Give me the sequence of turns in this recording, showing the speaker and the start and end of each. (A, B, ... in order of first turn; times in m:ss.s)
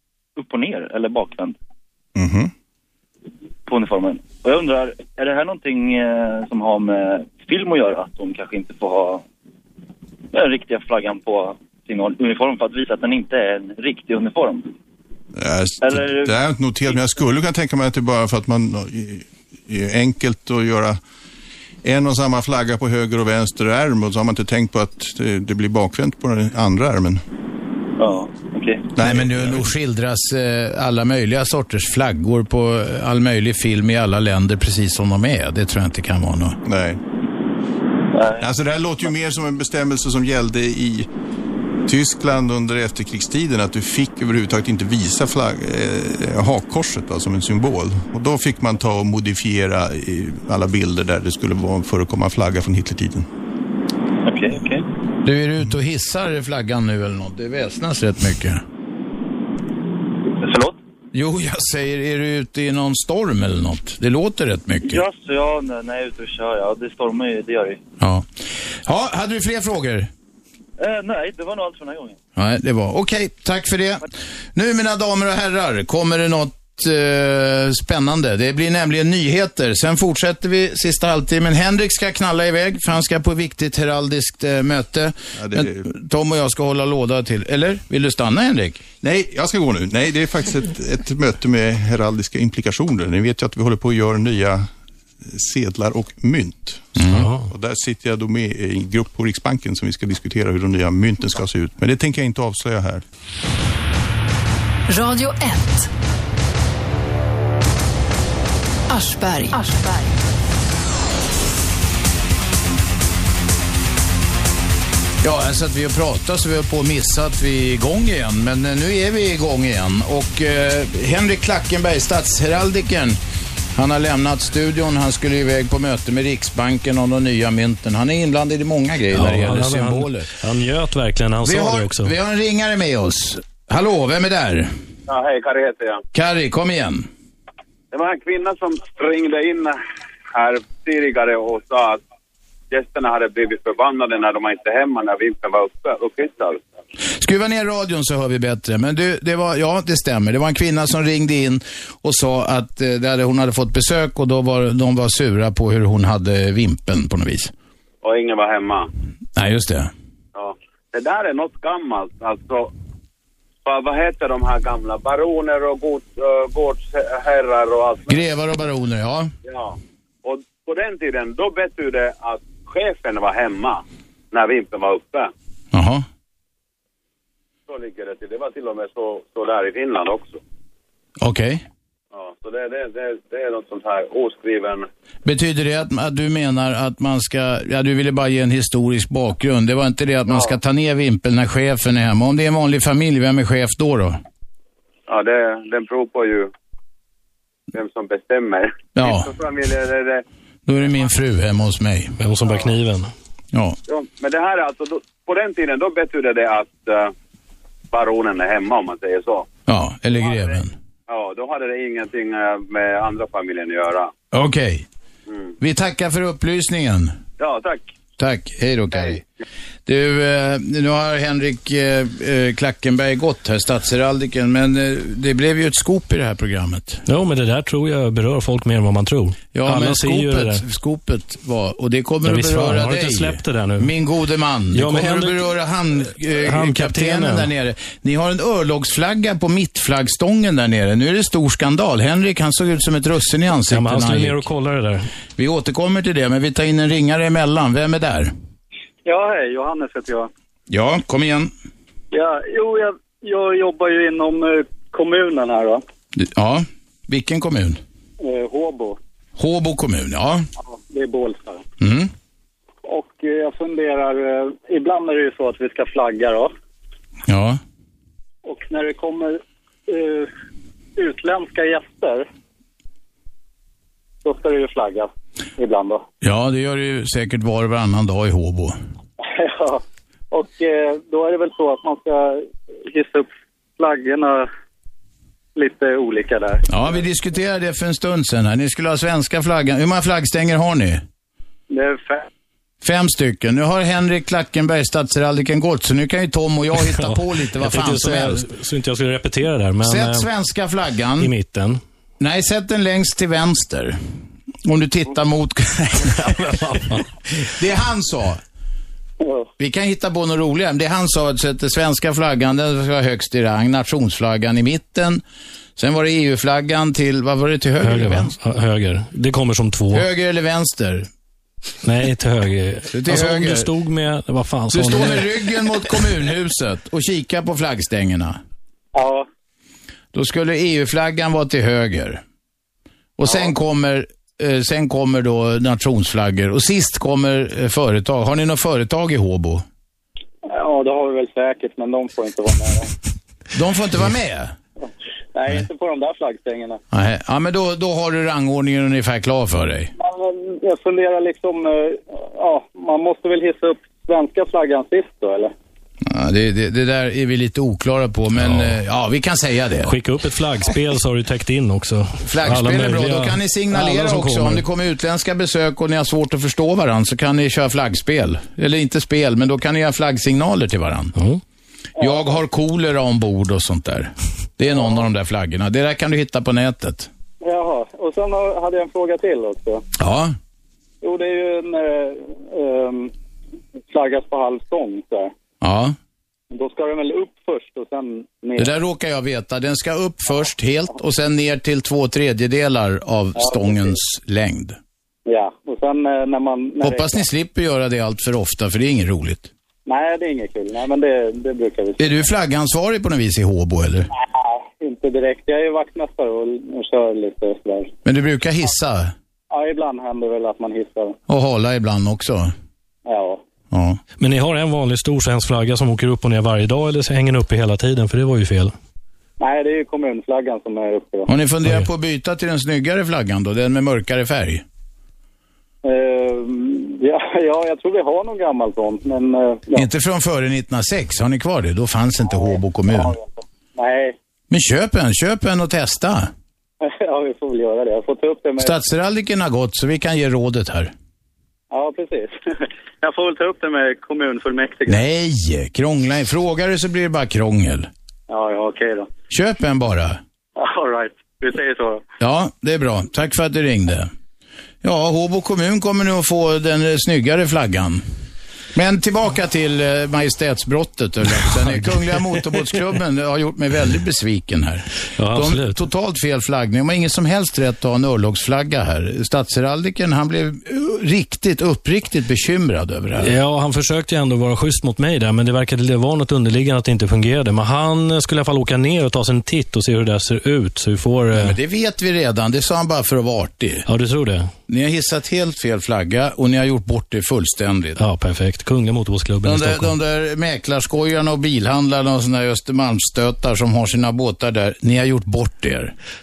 0:00.4-0:01.6 A
0:02.2-0:02.5 B
0:03.6-0:09.2 A
0:10.3-0:14.7 A
0:15.3-0:21.0 B
0:15.8-0:16.3 A
0:21.8-0:27.2 B
0:28.0-0:28.9 A
0:29.0-0:29.7 B
0:29.0-0:36.6 C
0:36.6-0:37.0 B
0:38.1-0:38.5 A
0:38.4-0:41.1 B
0:41.9-0:53.3 B
0:54.2-0:54.8 A
0:55.2-0:58.6 C
1:00.4-1:00.8 A
1:01.1-1:05.0 C
1:04.8-1:07.8 A
1:08.0-1:10.1 C
1:10.8-1:12.2 A
1:12.4-1:28.8 C
1:25.4-1:25.8 B
1:29.0-1:34.7 B
1:35.2-1:43.0 B
1:37.0-1:37.3 C
1:37.1-1:37.5 D
1:44.9-1:45.9 E
1:48.9-1:50.2 E
1:55.2-2:03.2 C
2:03.7-2:10.3 C
2:09.1-2:12.1 D
2:11.4-2:14.7 C
2:15.1-2:16.0 F
2:16.1-2:17.1 C
2:17.9-2:19.8 F
2:20.3-2:22.0 F
2:22.7-2:26.6 F
2:27.1-2:37.5 C
2:38.0-2:38.9 F
2:39.4-2:39.9 C
2:40.3-2:42.7 F
2:43.6-2:48.2 F
2:48.1-2:49.3 C
2:49.4-2:55.3 F
2:55.7-2:56.0 C
2:57.7-3:00.4 F
3:01.2-3:01.6 C
3:02.1-3:04.9 F
3:05.2-3:14.2 C
3:15.1-3:16.5 F
3:17.7-3:20.2 F
3:18.9-3:19.3 C
3:20.6-3:22.2 C
3:22.2-3:23.1 D
3:23.5-3:23.8 C
3:23.9-3:27.1 F
3:27.9-3:29.5 F
3:29.7-3:30.7 C
3:30.2-3:30.6 F
3:31.1-3:34.1 F
3:34.3-3:34.8 C
3:35.3-3:35.5 F
3:35.6-3:37.2 C
3:37.4-3:37.9 F
3:38.2-3:39.2 C
3:39.8-3:47.0 C
3:47.0-3:50.6 D
3:49.5-4:04.5 C
3:52.2-3:53.9 D
3:54.7-3:55.4 D
3:56.4-3:57.5 D
4:03.7-4:05.1 D
4:05.4-4:08.3 C
4:09.0-4:10.3 G
4:10.7-4:11.5 C
4:12.1-4:15.8 G
4:16.1-4:17.8 C
4:18.2-4:19.0 G
4:19.4-4:20.4 C
4:20.6-4:21.6 G
4:21.8-4:22.1 C
4:22.8-4:26.5 G
4:27.3-4:27.6 C
4:28.4-4:30.3 G
4:31.0-4:32.2 G
4:34.2-4:36.0 G
4:36.2-4:38.8 C
4:39.2-4:44.5 G
4:45.6-4:46.7 G
4:46.7-4:51.0 C
4:51.7-4:52.2 G
4:52.8-4:58.5 C
4:56.8-5:00.3 D
4:59.8-5:01.3 C
5:01.2-5:01.8 D
5:02.2-5:04.0 C
5:04.6-5:08.4 C
5:06.2-5:07.0 D
5:09.2-5:09.5 G
5:09.6-5:15.2 C
5:15.8-5:18.3 C
5:17.8-5:20.1 D
5:19.9-5:21.1 C
5:21.8-5:25.3 D
5:22.9-5:23.7 C
5:24.7-5:28.4 C
5:28.9-5:29.3 G
5:30.1-5:32.2 C
5:33.2-5:39.6 C
5:40.4-5:42.9 G
5:43.5-5:44.5 C
5:45.3-5:46.8 G
5:46.9-5:49.9 C
5:50.0-5:55.5 G
5:56.0-6:00.0 C
5:58.4-5:58.7 D
5:59.8-6:04.6 D
6:02.2-6:11.1 C
6:11.2-6:11.4 D
6:12.0-6:17.1 C
6:12.0-6:12.2 G
6:17.4-6:19.8 G
6:20.0-6:20.3 C
6:21.0-6:23.1 G
6:23.9-6:25.3 G
6:25.6-6:26.0 C
6:26.5-6:28.7 G
6:28.6-6:34.8 C
6:33.4-6:33.9 G
6:35.2-6:37.2 G
6:36.8-6:39.5 C
6:39.8-6:42.0 G
6:42.0-6:44.1 C
6:44.1-6:47.9 G
6:48.0-6:49.1 C
6:49.5-6:51.2 G
6:51.3-6:52.5 C
6:53.0-6:53.4 G
6:53.7-6:54.0 C
6:54.2-6:58.7 D
6:59.4-7:01.3 G
7:01.3-7:04.6 C
7:05.8-7:09.8 G
7:09.7-7:13.2 C
7:12.4-7:14.2 G
7:14.5-7:16.3 C
7:16.8-7:18.7 G
7:18.6-7:20.9 C
7:21.7-7:25.0 G
7:24.9-7:27.9 C
7:28.3-7:29.1 G
7:29.3-7:30.2 C
7:30.6-7:32.0 G
7:32.2-7:34.1 C
7:34.8-7:38.0 C
7:38.7-7:53.3 C
7:41.6-7:42.0 D
7:45.2-7:45.8 D
7:53.2-8:01.6 D
8:01.3-8:03.8 C
8:03.8-8:04.5 D
8:04.7-8:08.0 C
8:08.0-8:09.9 D
8:09.4-8:15.9 C